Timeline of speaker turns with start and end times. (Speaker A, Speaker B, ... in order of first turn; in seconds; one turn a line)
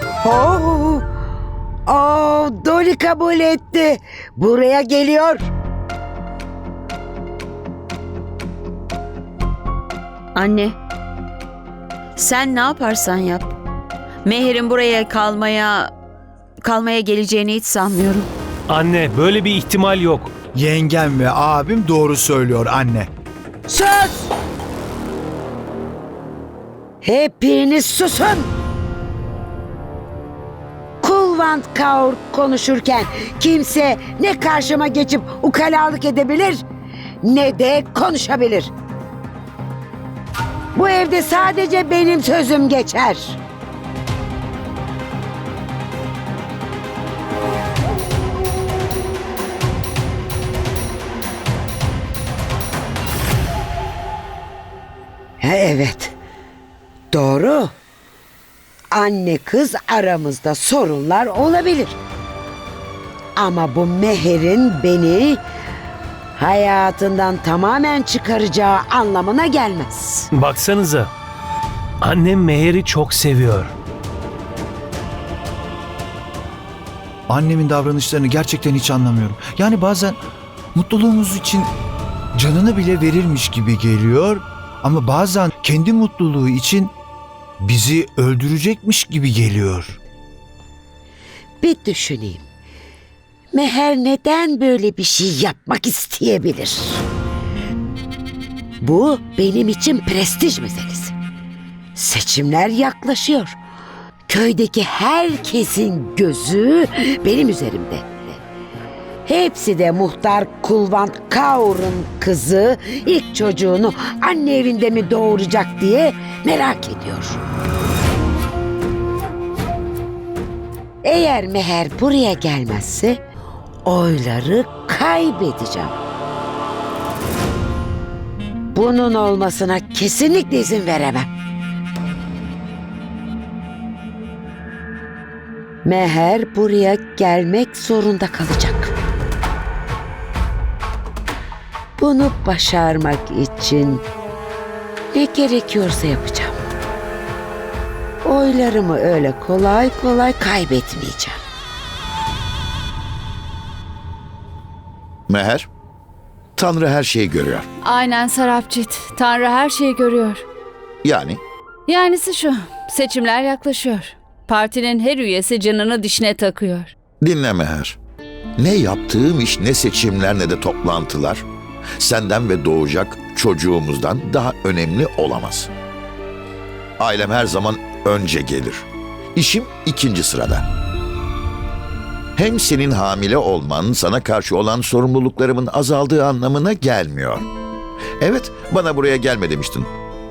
Speaker A: 0.2-1.0
Speaker A: 1.9-5.4
Speaker B: 10.3-10.8
Speaker B: 12.2-13.5
Speaker B: 14.2-15.9
Speaker B: 16.6-18.3
Speaker C: 18.7-20.3
Speaker D: 20.5-23.1
Speaker A: 23.7-24.2
Speaker A: 27.0-28.5
Speaker A: 31.0-36.6
Speaker A: 37.2-38.7
Speaker A: 40.7-43.4
Speaker A: 55.4-56.1
Speaker A: 57.1-57.7
Speaker A: 58.9-62.0
Speaker A: 63.4-65.4
Speaker A: 66.4-70.3
Speaker C: 70.3-71.1
Speaker C: 72.0-73.7
Speaker D: 77.3-80.2
Speaker D: 80.7-81.7
Speaker D: 82.3-86.9
Speaker D: 87.6-90.0
Speaker A: 91.6-92.4
Speaker A: 93.5-97.0
Speaker A: 98.8-101.1
Speaker A: 101.9-103.6
Speaker A: 104.3-108.2
Speaker A: 109.2-117.4
Speaker A: 121.0-123.2
Speaker A: 123.8-125.9
Speaker A: 128.7-131.3
Speaker A: 135.8-138.9
Speaker A: 142.0-144.0
Speaker A: 145.1-146.6
Speaker A: 148.2-151.4
Speaker E: 155.3-155.7
Speaker E: 156.6-157.7
Speaker F: 157.8-160.4
Speaker E: 161.0-161.4
Speaker F: 161.9-166.9
Speaker E: 167.2-168.0
Speaker E: 168.6-171.4
Speaker E: 172.0-175.7
Speaker E: 177.0-180.6
Speaker E: 182.4-187.5
Speaker E: 188.2-189.9